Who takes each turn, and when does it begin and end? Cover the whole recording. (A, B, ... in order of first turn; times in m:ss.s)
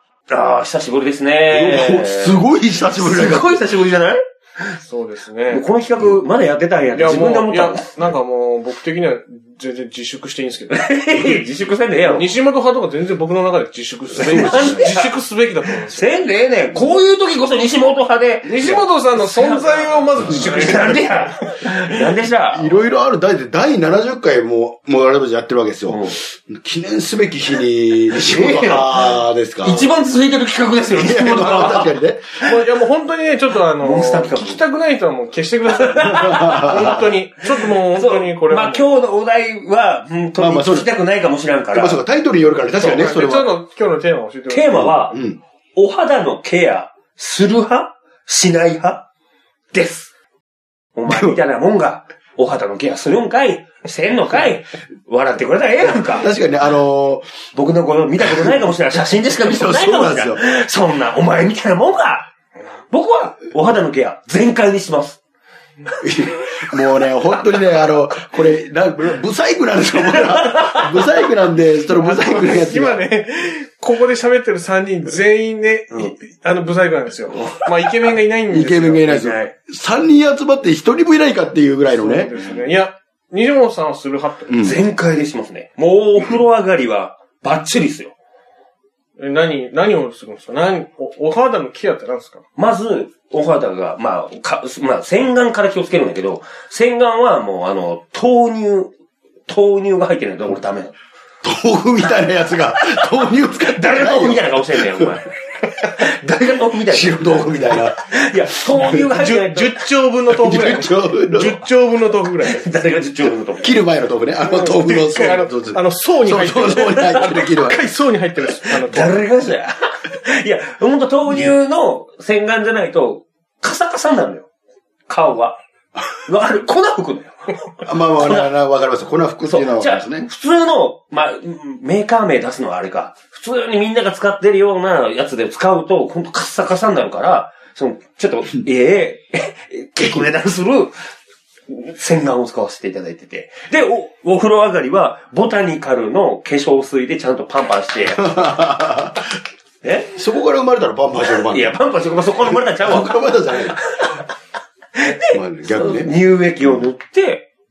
0:00.3-0:04.7 A
0:01.5-0:03.6 B
0:04.8-0:05.6 C
0:05.5-0:08.1 A
0:06.9-0:10.8 C
0:10.7-0:12.3 A
0:12.0-0:16.0 C
0:14.2-0:15.1 A
0:14.2-0:14.8 B
0:15.8-0:22.8 A
0:18.4-0:21.7 C
0:22.5-0:29.9 B
0:25.9-0:26.2 A
0:28.2-0:31.9 A
0:30.9-0:32.2 B
0:32.4-0:38.8 C
0:33.8-0:34.6 A
0:35.8-0:42.0 A
0:36.2-0:37.1 B
0:40.4-0:40.9 B
0:41.7-0:43.5 B
0:42.8-0:43.0 A
0:42.8-0:44.8 C
0:44.5-0:45.2 A
0:44.7-0:45.4 B
0:45.7-0:49.0 A
0:49.7-0:50.1 A
0:51.0-0:56.3 A
0:51.1-0:51.4 B
0:56.0-0:57.3 B
0:57.5-1:02.3 A
0:58.2-0:58.6 B
0:59.4-1:00.4 B
1:02.9-1:05.2 A
1:06.0-1:13.0 B
1:10.3-1:10.9 A
1:11.9-1:19.2 C
1:18.5-1:22.3 B
1:19.1-1:19.5 A
1:21.9-1:24.7 C
1:22.3-1:22.6 A
1:24.5-1:24.8 B
1:24.6-1:28.1 A
1:29.2-1:32.4 C
1:32.6-1:38.9 A
1:39.5-1:41.0 A
1:41.4-1:45.1 B
1:42.9-1:49.8 A
1:46.9-1:48.0 B
1:48.8-1:49.0 B
1:48.8-1:52.7 C
1:50.3-1:51.6 B
1:52.4-1:53.8 A
1:53.6-1:57.9 B
1:54.5-1:59.2 C
1:58.6-2:04.5 A
2:01.3-2:01.5 B
2:05.1-2:05.6 A
2:06.2-2:08.5 A
2:07.8-2:10.3 B
2:09.4-2:21.1 A
2:21.7-2:28.4 A
2:28.2-2:29.3 B
2:29.8-2:30.2 A
2:30.1-2:31.7 B
2:31.4-2:34.2 A
2:32.4-2:33.8 B
2:35.0-2:37.5 A
2:35.2-2:36.1 B